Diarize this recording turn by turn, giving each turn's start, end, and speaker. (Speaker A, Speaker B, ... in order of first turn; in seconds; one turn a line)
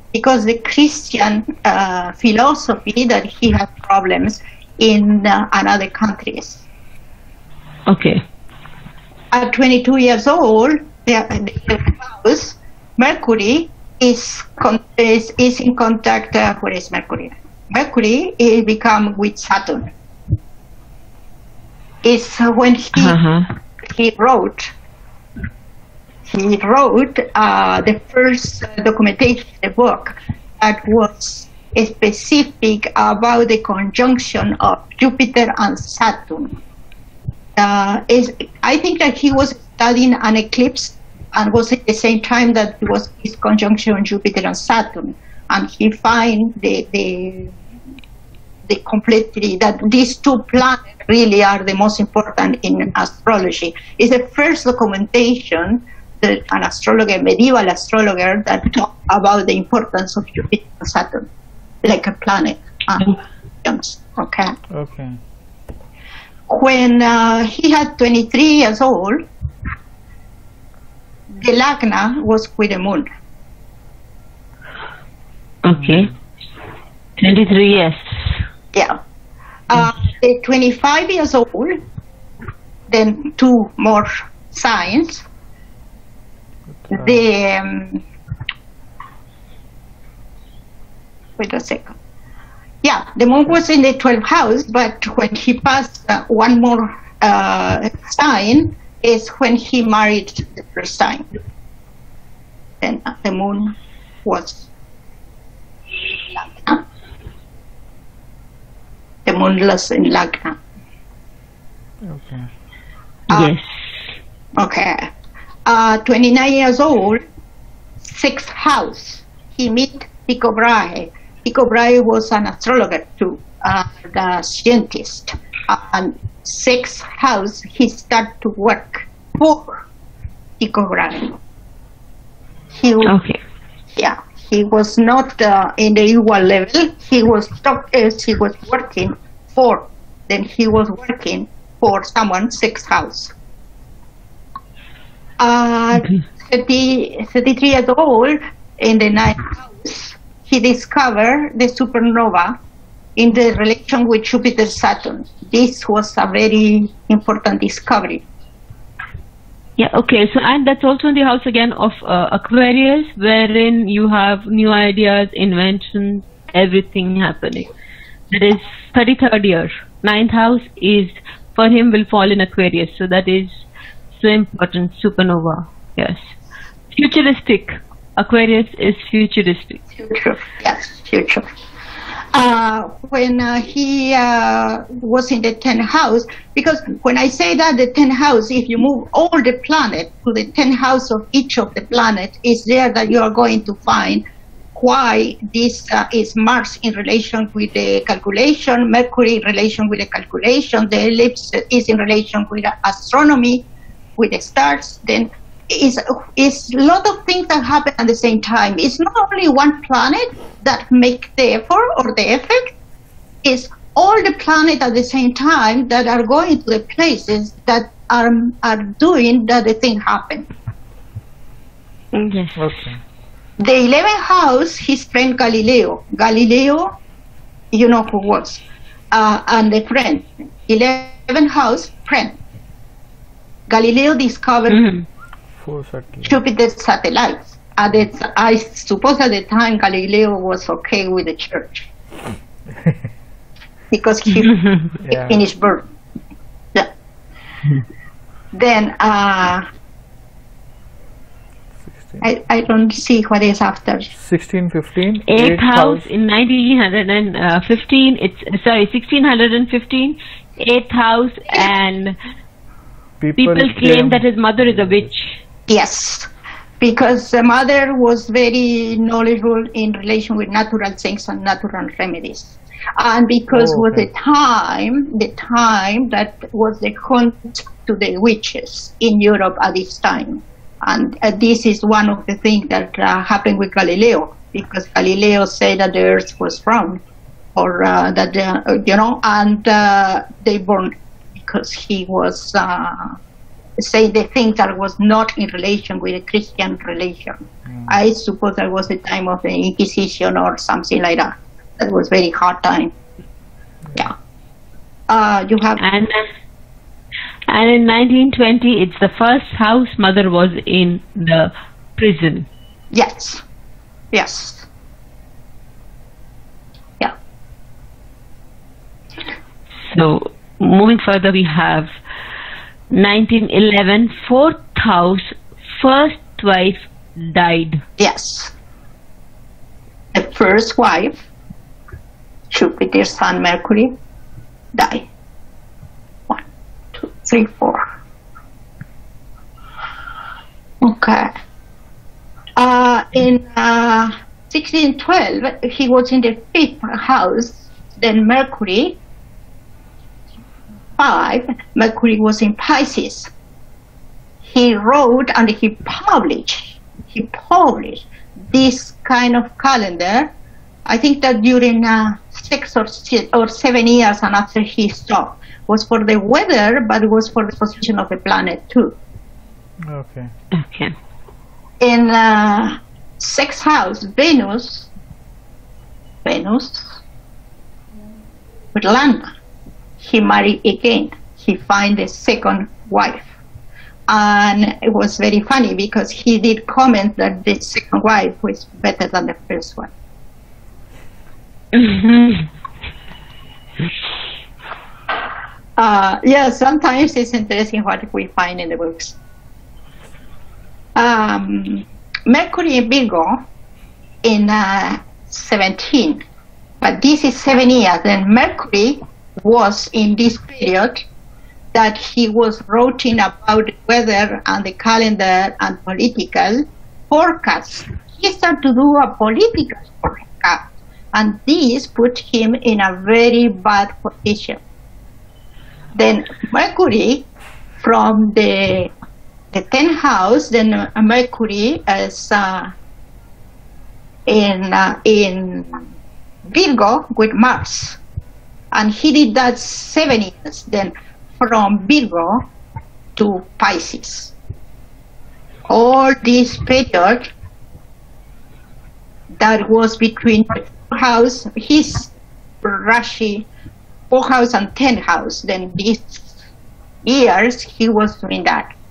Speaker A: 0.1-6.6
Speaker B: 7.9-8.2
Speaker A: 9.3-19.9
Speaker A: 22.0-23.2
Speaker B: 22.9-23.5
Speaker A: 23.8-24.7
Speaker A: 26.3-36.6
Speaker A: 37.6-47.5
Speaker A: 48.7-61.3
Speaker A: 61.8-64.5
Speaker C: 64.7-65.2
Speaker A: 66.5-69.3
Speaker A: 71.3-73.1
Speaker B: 75.6-76.1
Speaker C: 75.7-76.1
Speaker B: 77.2-78.4
Speaker A: 78.7-79.0
Speaker A: 79.7-81.8
Speaker A: 82.9-85.2
Speaker C: 86.7-87.3
Speaker A: 86.9-88.0
Speaker A: 91.4-92.0
Speaker A: 92.8-101.3
Speaker A: 102.8-104.7
Speaker A: 106.0-106.8
Speaker A: 109.3-110.6
Speaker C: 112.0-112.5
Speaker B: 113.3-113.7
Speaker A: 114.6-115.1
Speaker A: 115.7-117.2
Speaker A: 118.0-129.8
Speaker A: 130.6-131.4
Speaker A: 132.7-133.1
Speaker B: 133.1-133.4
Speaker A: 134.0-143.3
Speaker A: 145.4-152.6
Speaker A: 153.2-158.2
Speaker B: 159.8-167.7
Speaker B: 168.3-173.6
Speaker B: 174.1-176.3
Speaker B: 176.9-179.8
Speaker A: 180.0-181.5
Speaker A: 182.3-203.6
Speaker A: 204.2-212.7
Speaker A: 213.4-220.5
Speaker B: 222.1-222.7
Speaker C: 222.6-223.0
Speaker A: 223.6-226.9
Speaker A: 227.7-232.4
Speaker A: 233.7-234.8
Speaker B: 234.7-235.1
Speaker C: 235.6-236.4
Speaker A: 236.3-241.9
Speaker C: 242.7-243.1
Speaker A: 243.9-245.8
Speaker B: 244.4-244.9
Speaker C: 245.0-245.4
Speaker A: 248.5-249.6
Speaker C: 251.8-252.3
Speaker A: 252.2-254.1
Speaker C: 254.1-256.1
Speaker B: 255.3-262.2
Speaker C: 263.2-265.1
Speaker B: 263.4-265.4
Speaker A: 265.7-266.3
Speaker A: 266.8-287.0
Speaker C: 273.5-274.1
Speaker A: 287.6-293.2
Speaker A: 293.8-302.9
Speaker C: 297.6-297.9
Speaker A: 305.1-305.8
Speaker B: 305.8-306.3
Speaker B: 307.5-312.5
Speaker A: 312.9-313.4
Speaker A: 314.1-314.7
Speaker B: 319.8-321.9
Speaker B: 322.9-327.8
Speaker A: 328.0-328.5
Speaker A: 330.1-331.2
Speaker A: 332.5-333.9
Speaker A: 334.7-335.1
Speaker A: 336.9-337.8
Speaker A: 340.8-341.3
Speaker A: 342.6-349.0
Speaker A: 351.0-353.3
Speaker A: 354.4-360.3
Speaker A: 360.9-368.9
Speaker C: 369.8-370.3
Speaker B: 370.5-370.9
Speaker A: 371.8-374.9
Speaker A: 376.2-377.0
Speaker A: 378.7-379.3
Speaker A: 380.0-383.3
Speaker A: 384.1-389.9
Speaker B: 391.7-392.5
Speaker A: 395.8-399.2
Speaker A: 400.9-403.4
Speaker A: 404.2-406.2
Speaker A: 406.8-411.1
Speaker A: 411.7-424.6
Speaker A: 425.9-427.3
Speaker A: 427.8-428.9
Speaker A: 429.5-432.7
Speaker A: 434.3-435.9
Speaker A: 436.5-438.0
Speaker A: 438.7-442.5
Speaker A: 443.2-444.3
Speaker A: 445.7-447.3
Speaker A: 449.4-452.1
Speaker A: 452.6-453.5
Speaker A: 454.1-456.4
Speaker A: 457.0-458.7